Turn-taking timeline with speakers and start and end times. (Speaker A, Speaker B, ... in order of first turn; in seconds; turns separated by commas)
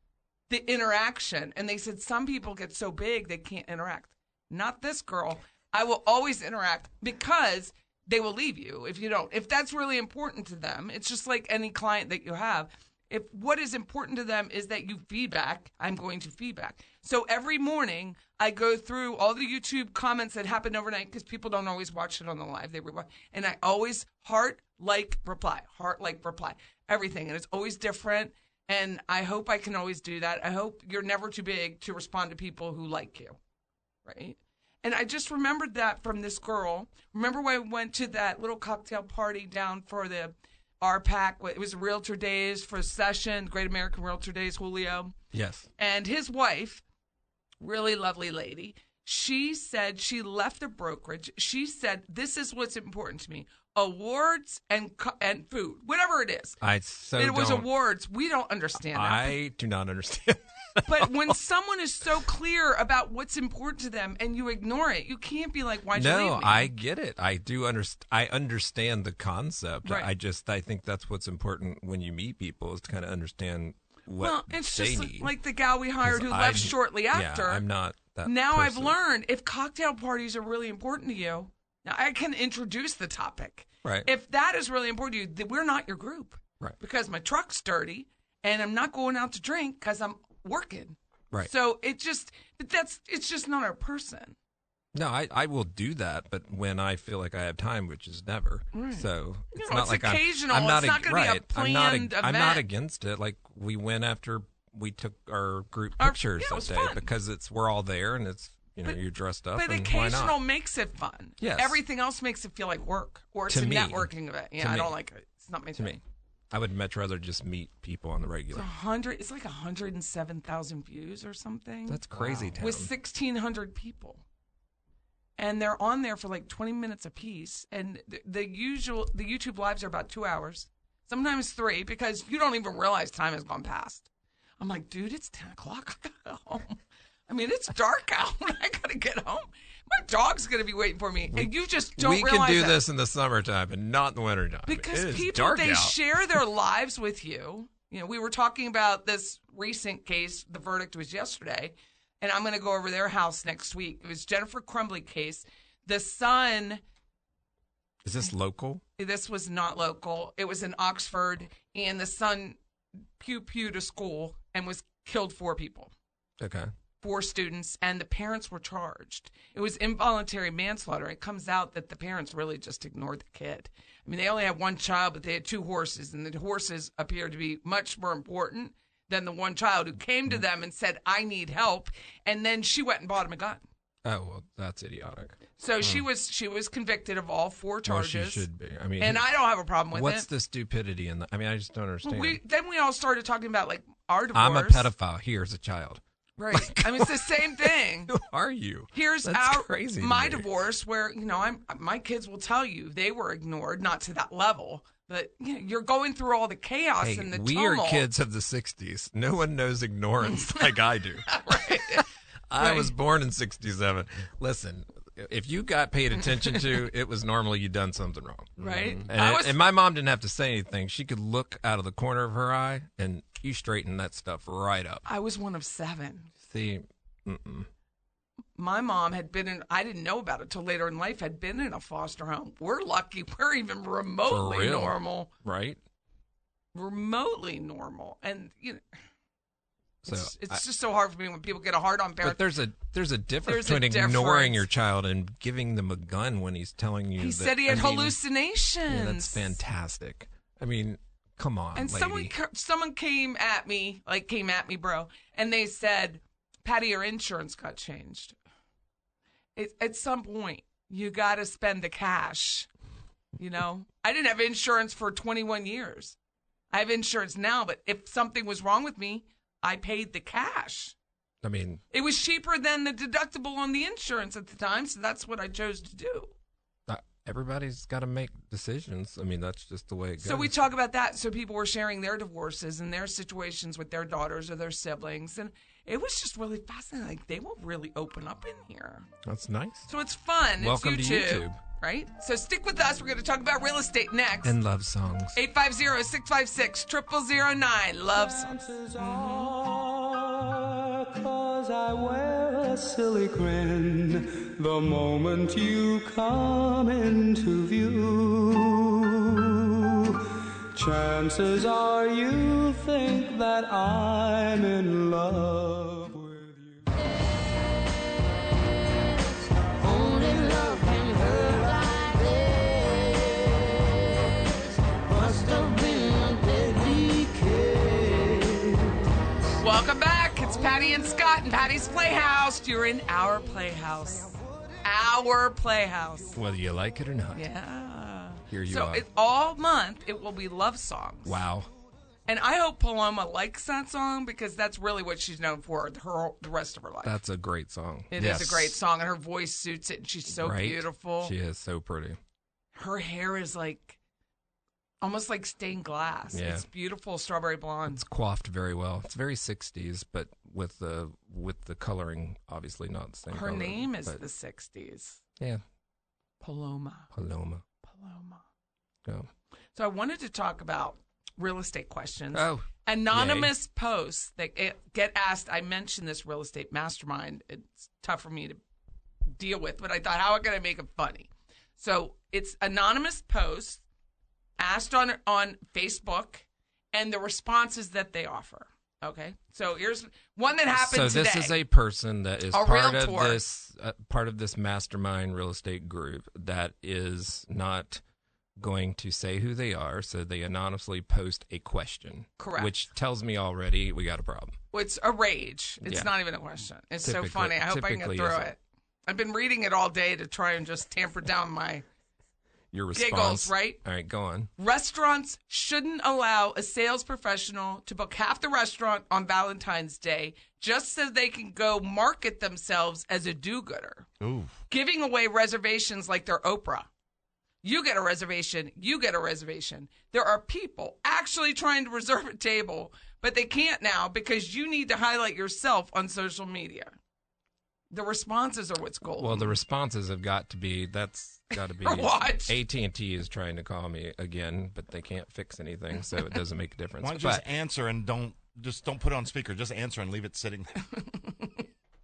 Speaker A: 0.5-33.4, Speaker A: 34.1-45.1, Speaker B: 45.3-45.7, Speaker A: 45.8-46.8, Speaker A: 47.6-56.6, Speaker B: 56.6-57.7, Speaker A: 57.2-59.4, Speaker B: 58.9-61.3, Speaker A: 60.9-66.7, Speaker B: 65.9-75.3, Speaker A: 69.8-70.1, Speaker A: 74.2-77.6, Speaker B: 76.0-79.0, Speaker A: 78.2-94.4, Speaker B: 94.9-110.4, Speaker A: 98.7-102.7, Speaker A: 106.0-107.1, Speaker A: 109.5-116.0, Speaker B: 111.4-111.8, Speaker B: 113.5-115.0, Speaker B: 115.8-116.0, Speaker B: 116.5-118.7, Speaker A: 118.5-124.2, Speaker B: 121.9-122.9, Speaker A: 125.4-134.1, Speaker A: 134.6-142.8, Speaker B: 141.3-146.4, Speaker A: 144.7-156.8, Speaker B: 158.0-158.8, Speaker A: 159.0-162.6, Speaker A: 163.2-165.9, Speaker B: 166.4-166.7, Speaker A: 167.0-183.6, Speaker B: 184.1-185.4, Speaker A: 185.6-188.5, Speaker B: 187.9-189.3, Speaker A: 189.0-190.3, Speaker B: 189.9-192.4, Speaker A: 192.1-194.9, Speaker B: 194.3-200.5, Speaker A: 196.4-198.1, Speaker A: 198.9-208.1, Speaker B: 207.0-225.1, Speaker A: 210.3-210.7, Speaker A: 211.3-212.1, Speaker A: 212.6-212.9, Speaker A: 216.4-216.7, Speaker A: 218.6-219.6, Speaker A: 225.1-226.3, Speaker B: 226.4-227.7, Speaker A: 228.6-235.3, Speaker B: 234.3-235.8, Speaker A: 236.7-238.8, Speaker B: 240.0-240.6, Speaker A: 240.1-242.5, Speaker B: 242.2-248.2, Speaker A: 243.4-244.6, Speaker A: 247.2-249.6, Speaker B: 248.9-252.3, Speaker A: 251.8-258.4, Speaker A: 259.6-262.7, Speaker A: 263.4-266.2, Speaker A: 266.7-270.9, Speaker B: 271.4-271.8, Speaker A: 271.9-276.3, Speaker B: 276.9-280.6, Speaker A: 280.2-289.1, Speaker B: 289.2-289.9, Speaker A: 289.9-294.6, Speaker B: 290.6-291.6, Speaker B: 294.4-295.4, Speaker A: 295.4-299.5, Speaker C: 298.1-310.2, Speaker C: 310.7-316.9, Speaker D: 319.9-321.2, Speaker D: 325.3-327.0, Speaker A: 329.6-336.4, Speaker B: 336.3-337.5, Speaker A: 337.3-341.4, Speaker B: 338.5-339.1, Speaker B: 341.2-341.7, Speaker A: 342.3-347.2, Speaker B: 347.0-348.7, Speaker A: 348.1-351.3, Speaker B: 350.3-352.2, Speaker A: 352.8-354.0, Speaker A: 355.0-358.0, Speaker B: 356.3-356.7, Speaker B: 357.9-364.2, Speaker A: 363.3-365.2, Speaker A: 366.4-367.1, Speaker B: 367.1-367.6, Speaker A: 367.8-368.4, Speaker A: 369.8-378.6, Speaker B: 372.3-373.5, Speaker A: 379.4-383.8, Speaker A: 384.6-391.6, Speaker B: 390.7-398.0, Speaker A: 392.5-393.4, Speaker B: 398.6-404.6, Speaker A: 402.4-402.7, Speaker A: 404.7-411.8, Speaker B: 405.8-406.1, Speaker B: 407.0-408.6, Speaker B: 412.7-414.5, Speaker A: 412.9-413.8, Speaker A: 414.6-424.1, Speaker E: 424.2-424.6, Speaker A: 424.7-426.9, Speaker A: 427.6-437.0, Speaker A: 437.9-439.5, Speaker B: 439.2-447.4, Speaker A: 441.8-442.6, Speaker E: 447.0-450.8, Speaker A: 451.0-451.6